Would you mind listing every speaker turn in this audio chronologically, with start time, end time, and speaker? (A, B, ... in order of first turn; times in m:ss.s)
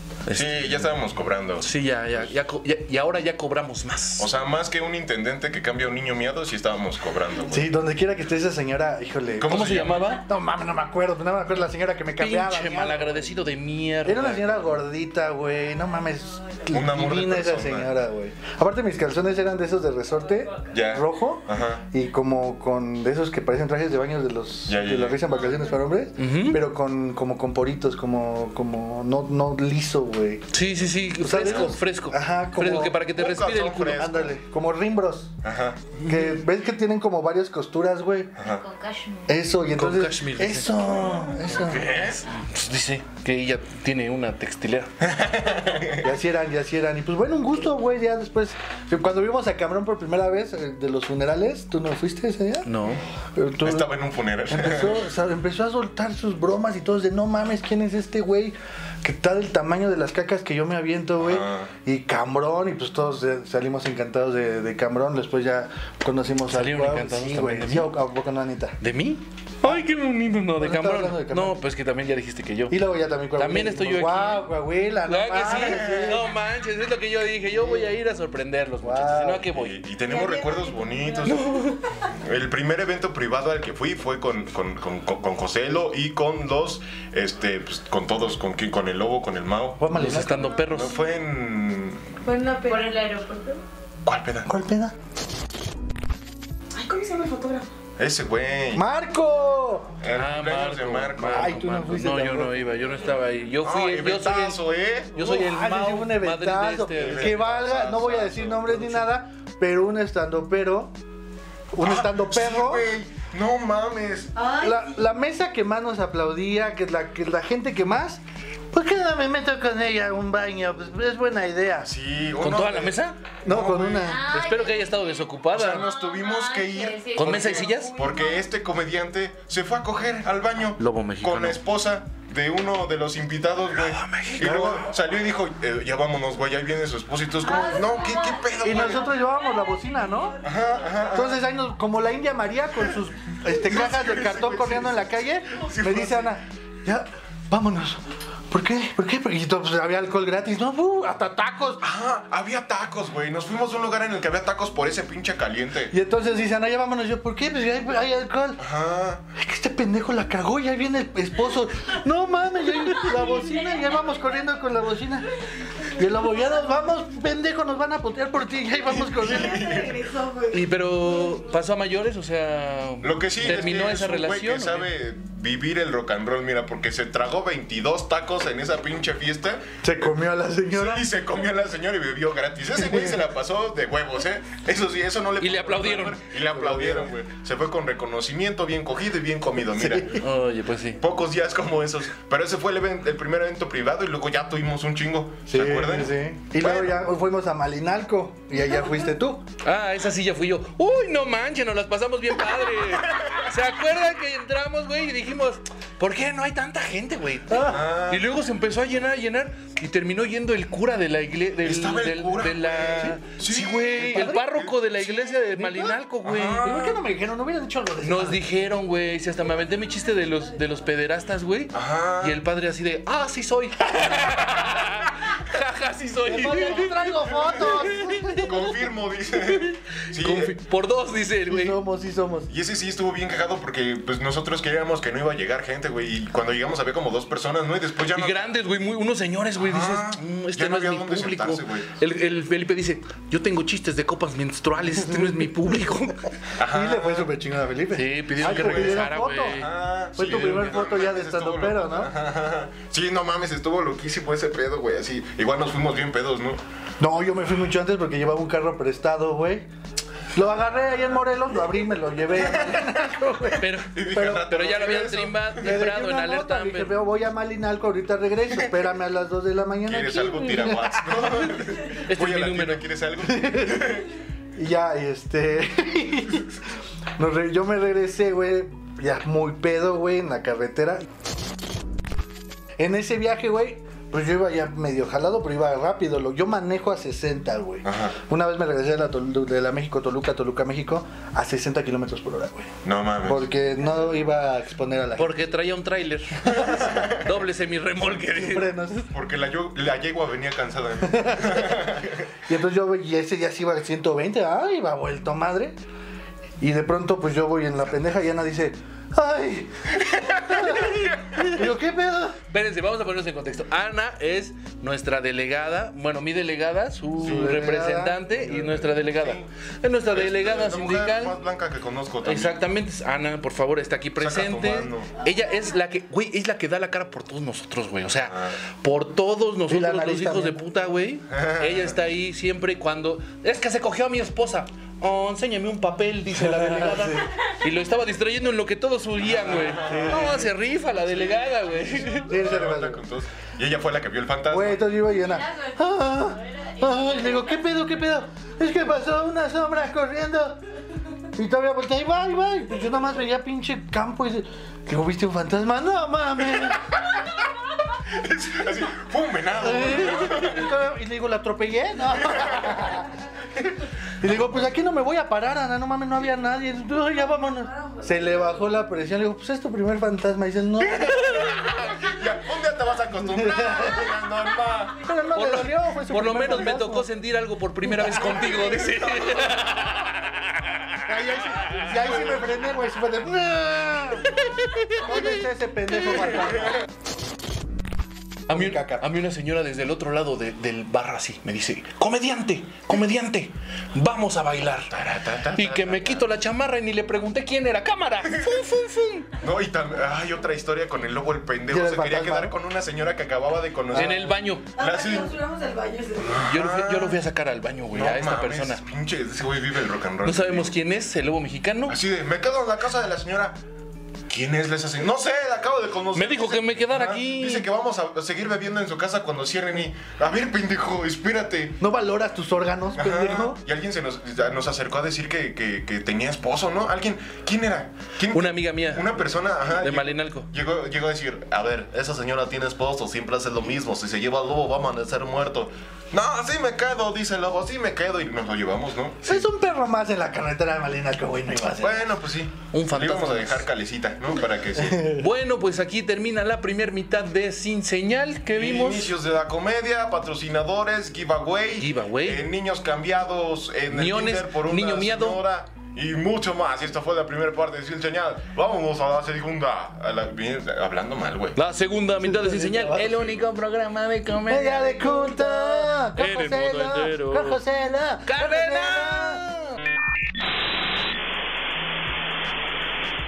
0:00.3-0:00.6 A
0:00.3-0:01.7 B
0:01.6-0:04.3 A
0:04.2-0:07.7 B
0:07.5-0:13.3 C
0:09.4-0:10.2 B
0:09.4-0:10.2 A
0:12.2-0:14.8 A
0:14.0-0:30.5 C
0:16.7-0:17.9 B
0:20.7-0:21.8 B
0:24.7-0:25.3 B
0:26.2-0:26.6 A
0:30.5-0:34.0 A
0:31.2-0:33.0 C
0:33.1-0:34.4 B
0:33.9-0:35.3 C
0:35.4-0:35.8 B
0:36.0-0:36.4 A
0:36.0-0:38.3 C
0:38.4-0:38.6 B
0:38.4-0:39.4 D
0:39.3-0:41.9 C
0:39.7-0:44.9 A
0:41.6-0:42.2 B
0:45.0-0:46.1 B
0:46.0-0:52.7 C
0:52.6-0:53.0 A
0:53.3-0:53.9 C
0:53.6-0:55.0 B
0:54.5-1:08.8 C
1:01.2-1:01.7 B
1:06.5-1:07.9 A
1:08.8-1:12.8 A
1:10.6-1:11.6 C
1:12.7-1:16.3 C
1:13.4-1:14.5 A
1:15.0-1:19.8 A
1:15.4-1:16.3 B
1:17.5-1:18.0 C
1:18.8-1:19.5 C
1:19.5-1:21.6 B
1:20.1-1:21.3 D
1:21.2-1:21.8 A
1:22.1-1:29.9 B
1:29.8-1:30.6 C
1:29.9-1:31.0 A
1:30.7-1:32.1 B
1:32.2-1:33.6 E
1:32.6-1:33.4 D
1:34.0-1:34.5 B
1:34.4-1:34.9 C
1:36.7-1:37.7 E
1:38.0-1:38.8 B
1:38.7-1:39.9 C
1:40.0-1:41.6 B
1:40.1-1:44.6 A
1:41.3-1:42.8 C
1:43.6-1:45.2 B
1:45.1-1:49.1 A
1:45.2-1:50.9 C
1:46.9-1:48.4 B
1:51.7-1:52.9 C
1:51.8-1:54.3 B
1:54.4-1:54.8 E
1:54.5-2:01.9 C
2:01.8-2:04.2 B
2:02.4-2:03.2 A
2:03.4-2:04.4 C
2:04.0-2:08.5 D
2:04.3-2:05.9 A
2:05.5-2:19.1 B
2:07.1-2:08.0 A
2:10.8-2:11.6 A
2:13.8-2:14.7 A
2:14.4-2:14.8 C
2:17.4-2:18.9 D
2:18.6-2:20.4 C
2:20.4-2:21.4 B
2:21.1-2:31.8 C
2:23.5-2:26.4 B
2:31.8-2:35.9 B
2:35.9-2:38.6 C
2:38.6-2:39.2 B
2:39.3-2:49.7 C
2:49.0-2:50.0 B
2:49.2-2:50.7 E
2:50.5-2:54.9 A
2:53.0-2:59.8 B
2:59.8-3:01.1 C
3:00.7-3:10.2 B
3:02.8-3:03.2 C
3:05.4-3:06.2 A
3:06.5-3:07.1 C
3:09.8-3:10.2 C
3:10.2-3:11.0 A
3:11.0-3:17.0 B
3:15.5-3:19.4 C
3:19.6-3:36.9 A
3:27.5-3:27.9 C
3:27.6-3:28.3 B
3:31.6-3:34.4 B
3:34.0-3:34.5 C
3:35.3-3:36.0 C
3:36.2-3:36.9 B
3:36.6-3:38.4 C
3:38.0-3:48.5 A
3:41.7-3:42.4 B
3:46.2-3:48.7 C
3:48.4-3:50.6 B
3:49.3-3:51.8 A
3:51.5-3:52.5 C
3:52.5-3:58.5 B
3:58.1-4:06.3 A
3:59.6-4:02.0 B
4:05.0-4:05.5 C
4:06.6-4:07.3 B
4:06.7-4:09.6 C
4:07.9-4:10.8 A
4:08.4-4:16.6 B
4:10.2-4:12.1 C
4:17.0-4:19.7 C
4:20.3-4:23.6 C
4:22.5-4:23.0 B
4:23.6-4:27.0 A
4:23.8-4:25.6 B
4:25.6-4:31.1 C
4:29.9-4:34.1 B
4:31.9-4:32.8 A
4:33.2-4:34.0 C
4:34.6-4:36.6 C
4:37.2-4:41.1 C
4:42.8-4:52.7 C
4:47.8-4:48.1 B
4:52.8-4:53.5 B
4:53.2-4:55.4 C
4:55.2-4:58.8 A
4:56.8-4:57.1 B
4:58.3-4:59.1 C
4:59.1-5:02.2 B
5:01.1-5:01.9 C
5:02.5-5:05.8 C
5:06.6-5:12.4 C
5:10.0-5:11.5 B
5:12.5-5:21.4 A
5:17.2-5:18.8 C
5:17.2-5:17.5 B
5:18.8-5:19.5 B
5:20.1-5:22.6 B
5:22.2-5:42.3 A
5:24.2-5:25.1 B
5:28.3-5:28.5 B
5:29.7-5:30.6 C
5:31.3-5:31.9 B
5:36.4-5:37.3 C
5:39.3-5:40.5 B
5:39.8-5:40.4 C
5:41.0-5:44.9 B
5:42.2-5:43.0 C
5:44.5-5:50.6 C
5:51.3-5:56.9 C
5:58.1-6:00.7 B
5:59.6-6:03.1 C
6:02.3-6:02.8 B
6:04.2-6:11.8 C
6:04.2-6:04.5 B
6:11.2-6:15.1 B
6:13.2-6:14.1 C
6:15.0-6:17.1 C
6:15.3-6:20.7 A
6:17.8-6:18.5 C
6:21.0-6:24.4 C
6:24.4-6:25.1 A
6:24.9-6:26.8 C
6:28.5-6:34.9 A
6:28.5-6:29.1 C
6:34.9-6:36.2 B
6:35.5-6:39.3 A
6:39.4-6:45.3 B
6:41.7-6:42.5 C
6:43.9-6:44.3 C
6:43.9-6:44.7 A
6:44.8-6:46.4 E
6:46.2-6:47.2 B
6:46.4-6:48.8 A
6:47.9-6:50.7 B
6:50.2-6:52.0 A
6:51.9-6:53.6 B
6:54.3-7:01.8 B
6:56.1-6:57.7 A
7:01.8-7:03.6 C
7:03.0-7:19.4 B
7:08.3-7:09.1 A
7:09.8-7:10.5 A
7:19.2-7:22.1 C
7:21.8-7:25.2 B
7:22.7-7:23.7 A
7:24.9-7:25.2 C
7:25.1-7:29.1 A
7:28.6-7:41.6 B
7:31.8-7:32.5 A
7:33.9-7:35.4 A
7:41.6-7:47.6 A
7:42.2-7:43.3 C
7:44.4-7:49.4 C
7:48.2-7:49.8 A